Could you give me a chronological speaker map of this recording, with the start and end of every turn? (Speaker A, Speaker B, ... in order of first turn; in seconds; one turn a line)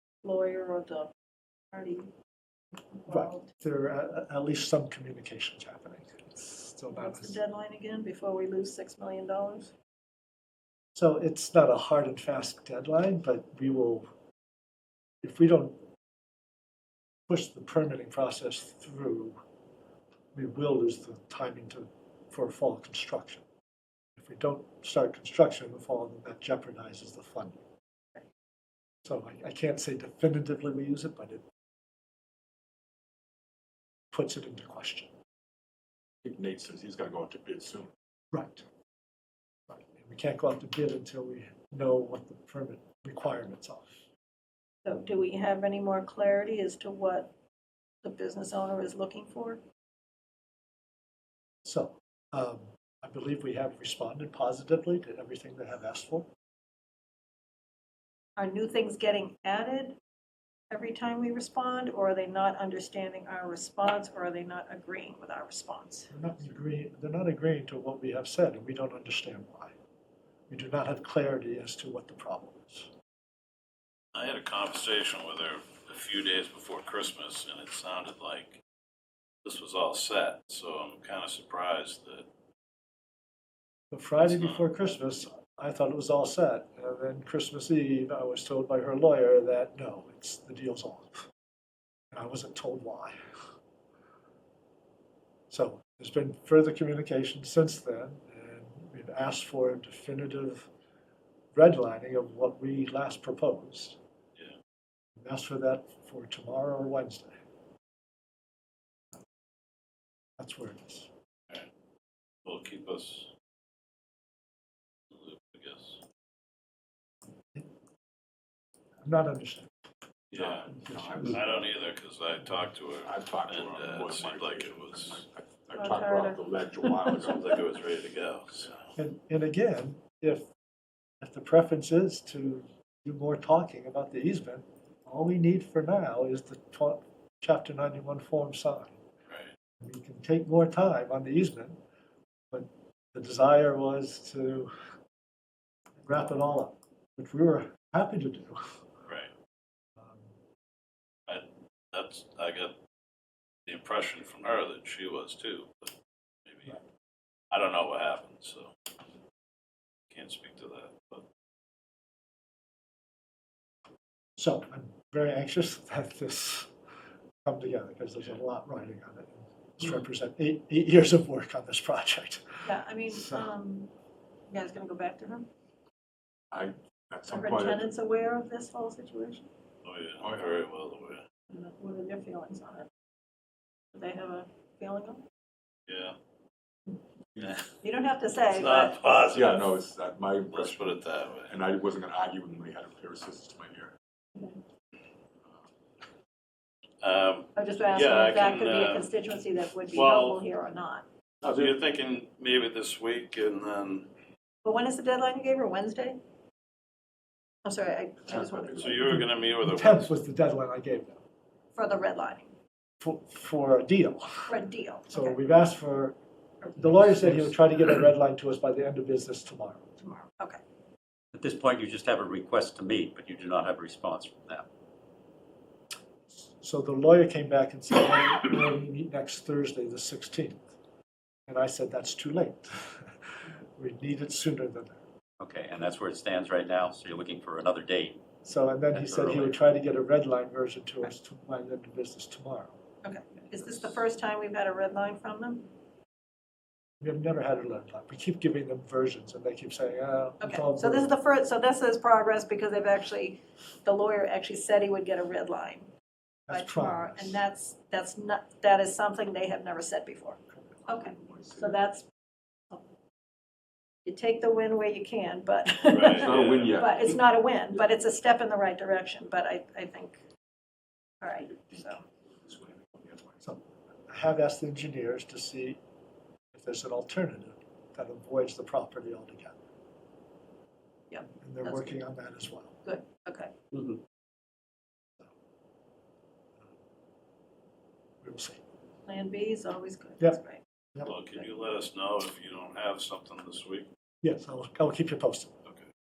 Speaker A: 0.2-1.1
Speaker A: 1.7-2.1
Speaker A: 2.9-3.5
Speaker B: 3.1-7.4
Speaker A: 6.9-9.7
Speaker B: 10.9-14.1
Speaker B: 15.2-15.8
Speaker B: 17.3-19.4
Speaker B: 20.3-23.4
Speaker B: 24.1-27.6
Speaker B: 29.0-31.4
Speaker B: 34.1-35.1
Speaker C: 36.2-37.9
Speaker B: 38.3-38.6
Speaker B: 39.7-44.0
Speaker A: 44.8-47.3
Speaker A: 48.0-49.6
Speaker B: 51.6-56.3
Speaker A: 58.4-60.0
Speaker A: 60.7-66.1
Speaker B: 66.1-69.7
Speaker B: 70.5-72.9
Speaker D: 74.1-78.6
Speaker D: 79.4-82.2
Speaker B: 83.9-91.3
Speaker D: 84.2-84.6
Speaker B: 92.1-93.2
Speaker B: 95.5-100.7
Speaker B: 101.5-104.0
Speaker B: 105.2-107.3
Speaker B: 110.4-111.1
Speaker D: 112.4-113.3
Speaker D: 115.1-116.0
Speaker B: 119.0-119.7
Speaker D: 120.3-120.7
Speaker C: 120.3-121.7
Speaker B: 120.5-121.4
Speaker D: 121.2-125.2
Speaker C: 123.0-127.5
Speaker A: 125.8-127.2
Speaker D: 127.2-128.8
Speaker B: 129.0-130.5
Speaker B: 131.2-139.0
Speaker B: 139.8-141.8
Speaker B: 142.5-144.7
Speaker B: 146.0-148.8
Speaker D: 149.0-149.3
Speaker B: 150.0-150.3
Speaker D: 151.3-152.7
Speaker D: 153.7-155.9
Speaker D: 156.4-156.8
Speaker D: 157.5-158.7
Speaker D: 160.1-161.2
Speaker B: 164.4-166.7
Speaker B: 167.4-173.5
Speaker A: 172.6-173.9
Speaker A: 174.5-175.5
Speaker C: 176.5-177.9
Speaker A: 177.3-179.5
Speaker D: 179.8-181.2
Speaker A: 181.5-182.9
Speaker A: 183.9-185.2
Speaker D: 185.9-186.1
Speaker D: 187.4-187.7
Speaker A: 187.8-189.1
Speaker D: 188.5-189.7
Speaker C: 189.3-193.9
Speaker D: 190.5-191.5
Speaker D: 197.0-199.1
Speaker A: 197.6-201.0
Speaker D: 199.9-200.4
Speaker D: 201.4-204.1
Speaker A: 204.6-206.2
Speaker A: 207.6-209.0
Speaker C: 208.2-209.1
Speaker D: 208.8-210.1
Speaker B: 209.1-211.2
Speaker A: 211.7-212.5
Speaker B: 213.0-214.5
Speaker A: 214.5-215.3
Speaker B: 215.1-216.2
Speaker B: 216.8-219.9
Speaker A: 220.0-220.6
Speaker E: 221.3-224.7
Speaker B: 226.3-230.7
Speaker B: 231.5-233.1
Speaker B: 233.8-235.0
Speaker E: 235.4-238.2
Speaker B: 238.4-242.8
Speaker E: 238.9-239.6
Speaker A: 243.0-245.7
Speaker B: 247.0-251.1
Speaker A: 250.4-255.9
Speaker B: 256.5-257.4
Speaker A: 256.5-262.1
Speaker C: 261.0-261.8
Speaker A: 264.0-270.2
Speaker D: 265.8-266.8
Speaker C: 266.2-267.2
Speaker A: 271.2-272.0
Speaker C: 272.4-273.4
Speaker B: 273.4-275.8
Speaker B: 276.5-279.6
Speaker A: 281.1-282.0
Speaker B: 281.4-282.7
Speaker A: 282.8-283.5
Speaker E: 283.7-284.0
Speaker B: 288.2-288.6
Speaker A: 289.1-291.4
Speaker D: 291.0-293.9
Speaker B: 294.2-295.5